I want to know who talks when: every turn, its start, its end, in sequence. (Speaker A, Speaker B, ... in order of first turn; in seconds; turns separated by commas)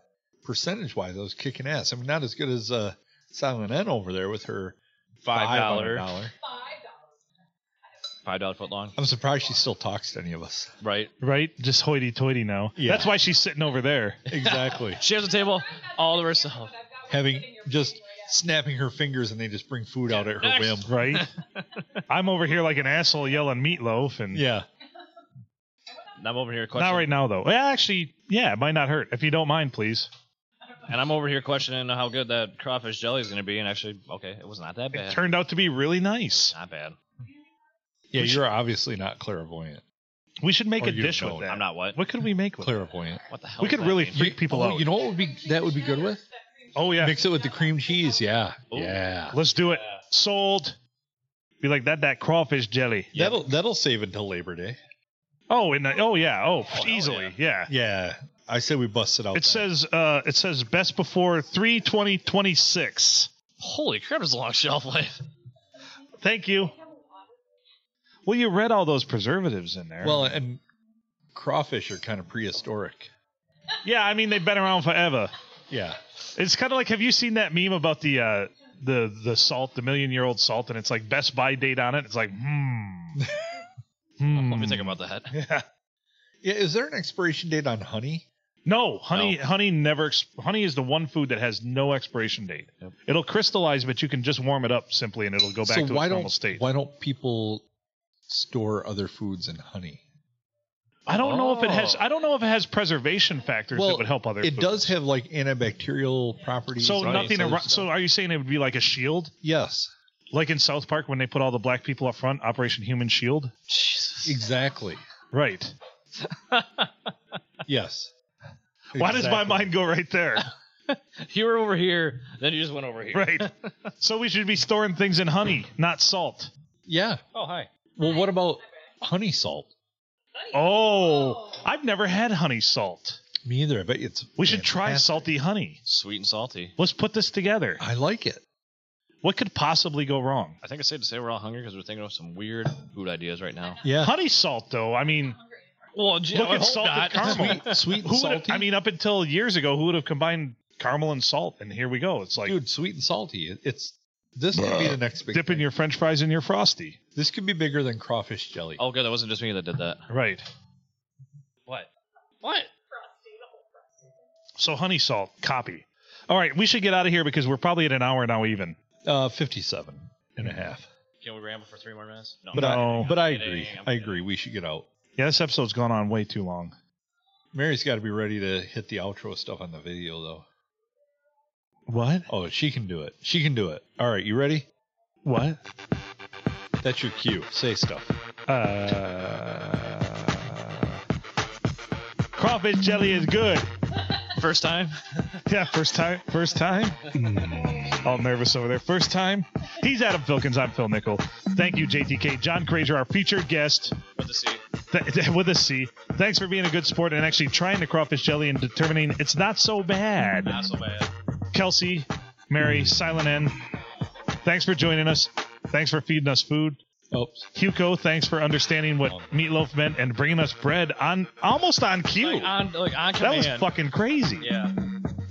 Speaker A: 0.4-6.3, Speaker B: 5.2-6.1, Speaker C: 6.3-7.2, Speaker B: 8.2-9.0, Speaker A: 9.0-10.7, Speaker B: 10.8-11.1, Speaker D: 11.2-14.2, Speaker A: 12.8-13.1, Speaker A: 14.3-15.0, Speaker B: 14.3-16.7, Speaker C: 15.1-18.4, Speaker A: 17.1-20.9, Speaker B: 20.1-22.0, Speaker D: 20.9-21.3, Speaker D: 22.1-24.4, Speaker C: 22.7-23.4, Speaker A: 24.3-24.6, Speaker C: 25.9-26.2, Speaker B: 26.2-27.1, Speaker D: 26.8-30.1, Speaker B: 30.9-35.2, Speaker D: 34.9-36.5, Speaker B: 36.3-37.0, Speaker A: 38.1-39.8, Speaker D: 38.1-38.4, Speaker D: 40.4-42.8, Speaker A: 40.8-41.5, Speaker B: 41.5-42.0, Speaker A: 42.6-43.2, Speaker B: 43.3-44.2, Speaker D: 43.6-44.9, Speaker A: 44.1-46.2, Speaker C: 44.9-48.3, Speaker D: 46.7-47.2, Speaker A: 47.0-49.4, Speaker B: 48.7-49.0, Speaker D: 49.3-50.8, Speaker B: 49.6-50.0, Speaker D: 51.6-53.3, Speaker A: 53.1-54.8, Speaker D: 55.5-57.7, Speaker B: 56.7-57.4, Speaker A: 57.7-59.7, Speaker D: 59.3-63.3, Speaker B: 63.6-65.2, Speaker D: 66.2-66.7, Speaker C: 66.6-67.3, Speaker D: 68.2-70.4, Speaker A: 70.0-70.6, Speaker A: 71.3-73.1, Speaker D: 73.8-75.3, Speaker A: 75.7-76.0, Speaker D: 76.3-83.2, Speaker A: 83.2-83.5, Speaker D: 84.2-85.6, Speaker B: 84.3-85.3, Speaker A: 86.4-88.2, Speaker D: 88.6-96.6, Speaker B: 89.1-89.4, Speaker A: 95.6-97.6, Speaker A: 98.3-100.0, Speaker D: 101.1-104.9, Speaker B: 101.1-102.0, Speaker A: 103.7-107.8, Speaker D: 106.8-109.3, Speaker B: 107.0-107.8, Speaker A: 109.4-109.9, Speaker D: 110.3-113.5, Speaker B: 113.7-114.4, Speaker A: 114.2-115.0, Speaker D: 115.3-115.7, Speaker B: 116.2-117.1, Speaker A: 117.7-118.1, Speaker A: 118.9-119.8, Speaker D: 119.0-120.5, Speaker B: 120.9-123.9, Speaker D: 123.1-123.5, Speaker D: 124.0-126.5, Speaker A: 126.8-127.2, Speaker B: 127.3-127.7, Speaker A: 128.0-129.7, Speaker C: 128.0-128.6, Speaker C: 130.3-131.7, Speaker D: 130.5-133.2, Speaker A: 133.4-135.3, Speaker D: 134.4-135.8, Speaker B: 135.8-136.7, Speaker D: 136.8-137.8, Speaker A: 137.8-138.4, Speaker D: 139.2-140.6, Speaker B: 140.6-143.8, Speaker C: 143.6-144.1, Speaker A: 143.8-144.1, Speaker D: 144.0-145.3, Speaker C: 145.1-145.7, Speaker B: 145.9-147.8, Speaker D: 146.3-152.6, Speaker A: 147.1-148.7, Speaker A: 152.4-155.7, Speaker D: 154.7-157.0, Speaker A: 157.1-158.8, Speaker B: 158.8-160.0, Speaker D: 160.1-160.4, Speaker B: 162.4-162.7, Speaker C: 162.8-164.2, Speaker D: 164.6-168.8, Speaker A: 169.0-170.9, Speaker B: 171.2-174.2, Speaker D: 172.5-173.1, Speaker A: 172.5-174.9, Speaker D: 175.2-176.7, Speaker A: 177.5-180.4, Speaker D: 181.9-182.3, Speaker A: 182.3-184.7, Speaker D: 185.2-185.6, Speaker A: 186.8-188.1, Speaker D: 188.5-191.0, Speaker D: 192.3-193.7, Speaker B: 194.3-195.4, Speaker D: 195.4-204.0, Speaker B: 204.2-204.6, Speaker D: 204.9-210.6, Speaker B: 210.4-211.1, Speaker D: 211.5-213.6, Speaker D: 214.4-216.8, Speaker A: 217.1-217.5, Speaker D: 217.5-222.5, Speaker A: 219.0-219.3, Speaker B: 222.2-223.7, Speaker D: 223.2-224.4, Speaker B: 224.4-224.7